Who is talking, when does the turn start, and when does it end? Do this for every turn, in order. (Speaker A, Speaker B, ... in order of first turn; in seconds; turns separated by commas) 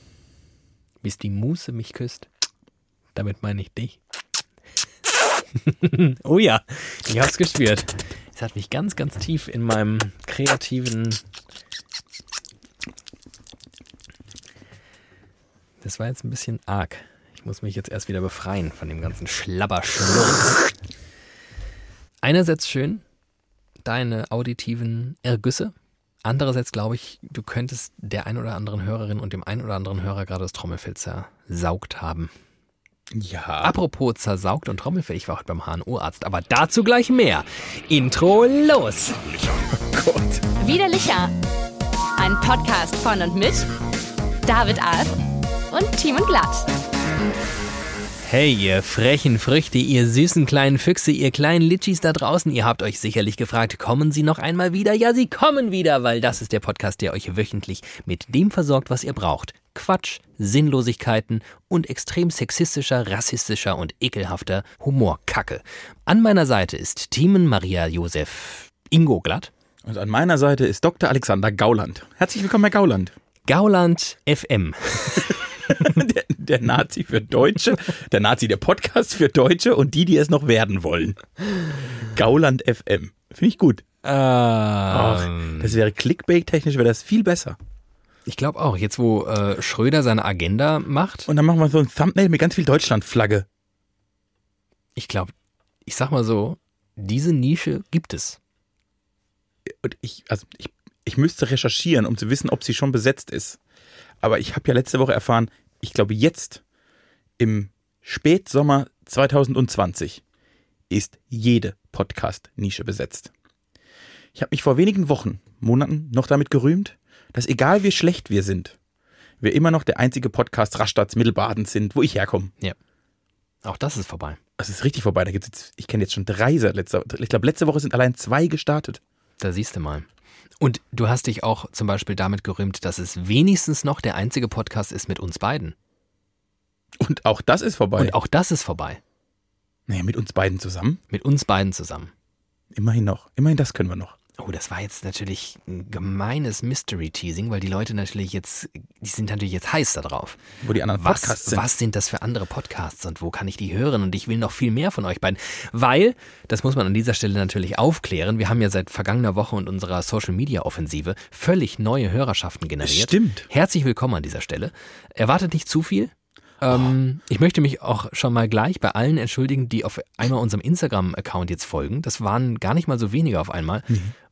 Speaker A: 1.0-2.3, Speaker A: 3.1-4.0, Speaker A: 5.5-11.2, Speaker A: 15.8-20.7, Speaker A: 22.2-23.0, Speaker A: 23.8-32.3, Speaker B: 33.1-33.7, Speaker A: 33.6-39.2, Speaker B: 39.5-40.5, Speaker C: 40.6-41.4, Speaker C: 42.1-43.7, Speaker C: 44.4-46.7, Speaker A: 48.2-69.5, Speaker B: 69.8-73.1, Speaker A: 73.5-75.4, Speaker B: 75.7-81.2, Speaker B: 81.9-83.8, Speaker A: 84.0-85.8, Speaker B: 84.9-87.5, Speaker A: 88.2-91.3, Speaker B: 91.3-93.5, Speaker A: 95.0-95.3, Speaker A: 95.8-98.4, Speaker B: 99.7-103.6, Speaker B: 104.2-106.6, Speaker B: 107.4-110.2, Speaker B: 110.9-113.3, Speaker B: 114.3-118.8, Speaker B: 119.4-122.5, Speaker A: 123.6-124.4, Speaker B: 124.6-129.0, Speaker A: 129.4-130.1, Speaker A: 130.6-135.7, Speaker B: 137.0-138.1, Speaker A: 138.0-139.0, Speaker B: 139.9-141.0, Speaker A: 141.1-142.1, Speaker B: 142.7-144.2, Speaker A: 144.4-150.4, Speaker B: 150.6-151.6, Speaker A: 150.9-173.9, Speaker B: 162.8-163.4